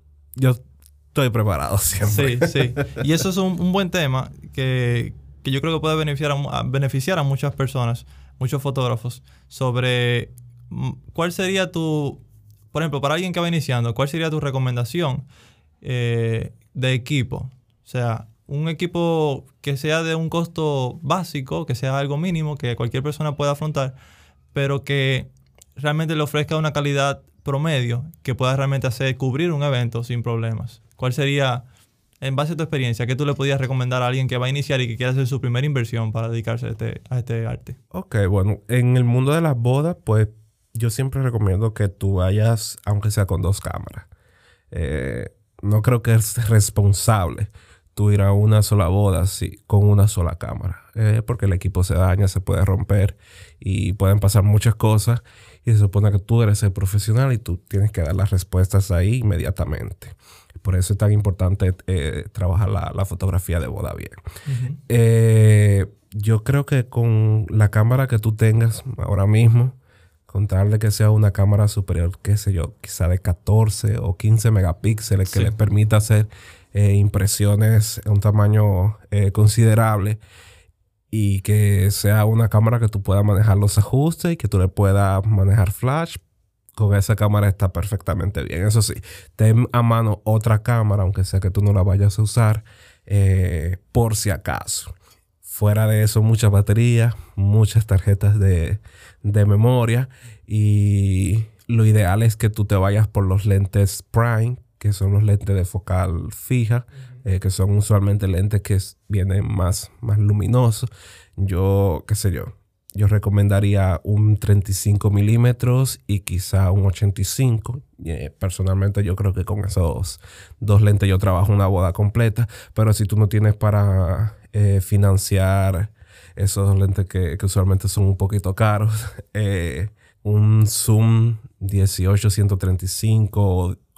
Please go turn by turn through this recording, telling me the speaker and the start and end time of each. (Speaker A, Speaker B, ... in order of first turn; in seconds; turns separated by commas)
Speaker A: 0.3-3.0, Speaker B: 2.0-15.2, Speaker B: 15.8-23.9, Speaker B: 24.5-31.6, Speaker B: 32.2-37.8, Speaker A: 37.9-44.1, Speaker A: 44.7-64.2, Speaker B: 64.5-64.8, Speaker A: 64.9-69.8, Speaker A: 70.3-80.2, Speaker B: 75.3-75.5, Speaker A: 81.1-86.2, Speaker A: 86.8-94.9, Speaker A: 95.5-133.8